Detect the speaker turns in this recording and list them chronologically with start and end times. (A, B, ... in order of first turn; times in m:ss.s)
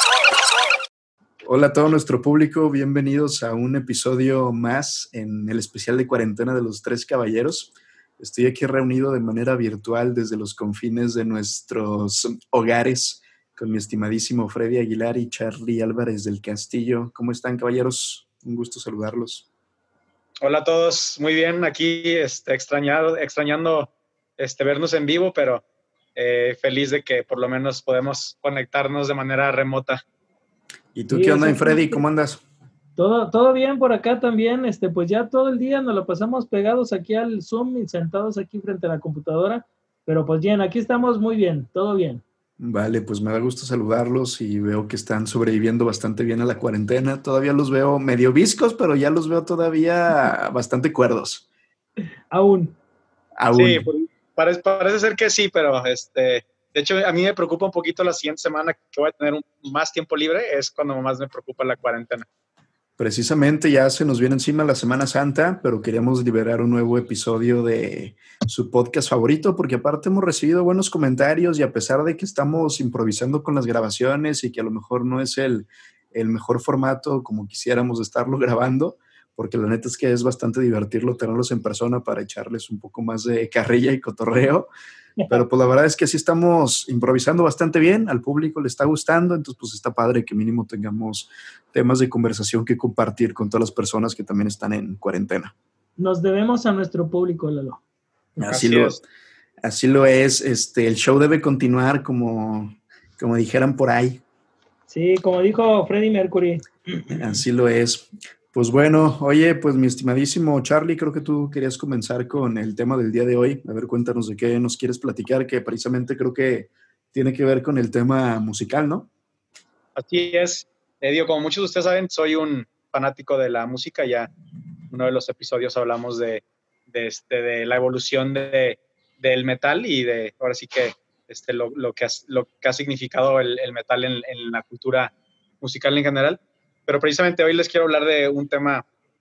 0:01.4-0:19.5 A
0:20.4-0:25.6 B
0:26.2-0:30.0 B
0:30.9-0:32.4 A
0:31.1-0:32.0 C
0:33.0-0:42.2 C
0:42.6-0:51.4 A
0:52.3-0:52.8 C
0:53.4-0:53.9 A
0:53.5-1:02.3 B
1:03.0-1:24.7 A
1:25.3-1:35.5 A
1:36.0-1:37.8 C
1:38.4-1:39.0 A
1:38.4-1:39.0 B
1:39.6-1:44.2 A
1:44.9-1:47.4 C
1:47.1-1:59.1 A
2:00.0-2:04.3 B
2:04.9-2:18.8 B